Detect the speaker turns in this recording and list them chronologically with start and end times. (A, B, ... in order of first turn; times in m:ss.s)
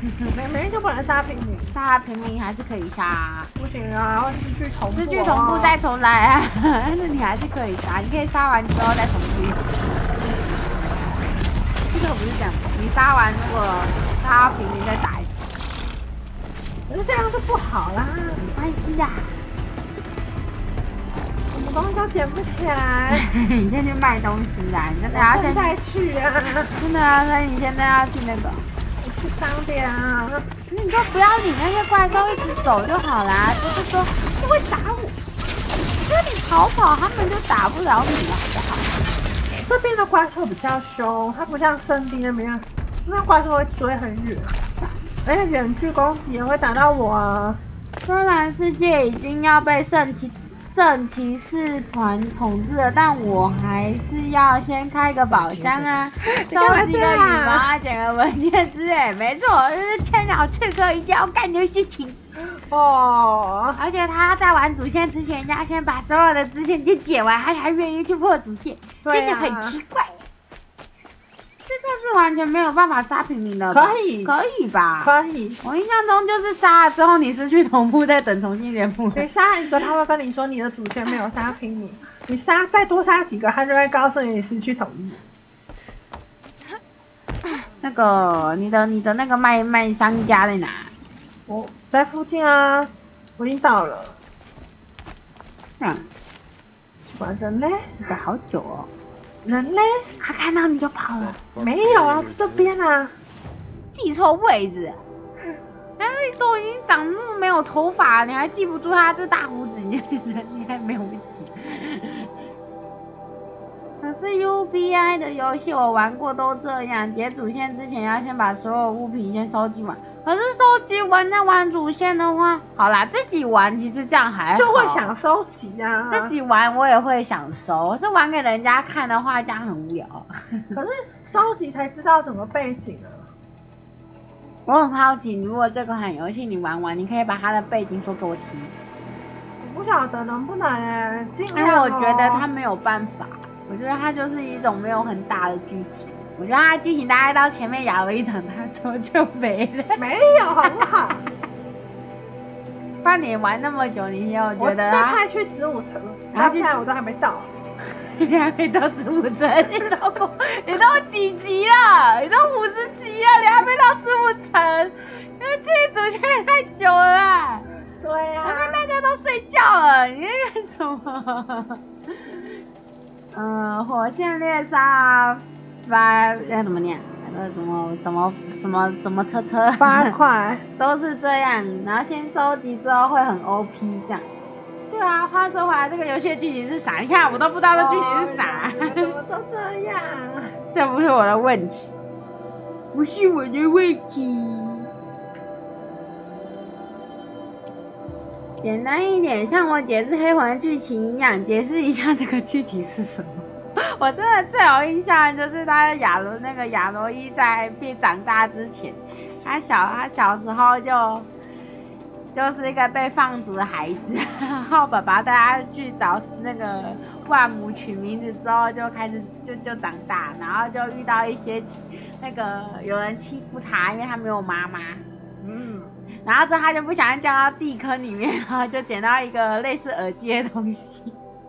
0:00.3-0:01.8 A
0:01.7-0:03.5 B
0:03.6-0:05.8 A
0:04.9-0:11.2 B
0:11.9-0:15.4 B
0:16.9-0:18.4 A
0:18.4-0:19.3 B
0:21.5-0:23.3 A
0:23.1-0:25.8 B
0:25.1-0:26.8 A
0:26.7-0:28.7 B
0:29.0-0:30.5 A
0:30.7-0:35.2 B
0:36.0-0:38.9 B
0:39.5-0:44.6 A
0:45.2-0:47.6 A
0:48.0-1:02.2 B
0:56.3-0:57.7 A
1:02.4-1:03.8 A
1:03.8-1:10.2 B
1:09.0-1:09.8 A
1:11.6-1:19.3 B
1:13.7-1:14.4 A
1:15.0-1:15.6 A
1:19.2-1:25.2 A
1:27.8-1:30.9 B
1:31.5-1:34.2 A
1:35.8-1:36.1 B
1:37.1-1:38.0 A
1:38.1-1:38.9 B
1:39.4-1:40.1 A
1:40.2-1:41.4 B
1:41.6-1:43.2 A
1:43.9-1:45.0 B
1:46.0-1:52.3 B
1:54.0-2:05.1 B
2:04.6-2:06.4 A
2:06.1-2:10.8 B
2:10.7-2:13.3 A
2:14.7-2:18.8 B
2:19.6-2:22.5 A
2:21.5-2:30.0 B
2:30.0-2:31.2 A
2:33.0-2:35.2 B
2:34.6-2:37.5 A
2:36.3-2:36.8 B
2:38.0-2:47.7 B
2:48.0-2:48.8 A
2:48.4-2:52.4 B
2:53.3-3:00.1 B
2:59.8-3:00.6 A
3:00.8-3:04.3 B
3:04.9-3:09.1 B
3:07.7-3:10.6 A
3:10.7-3:11.9 B
3:12.9-3:14.9 B
3:18.6-3:31.3 B
3:32.3-3:45.0 B
3:45.4-3:46.0 A
3:46.2-3:51.2 B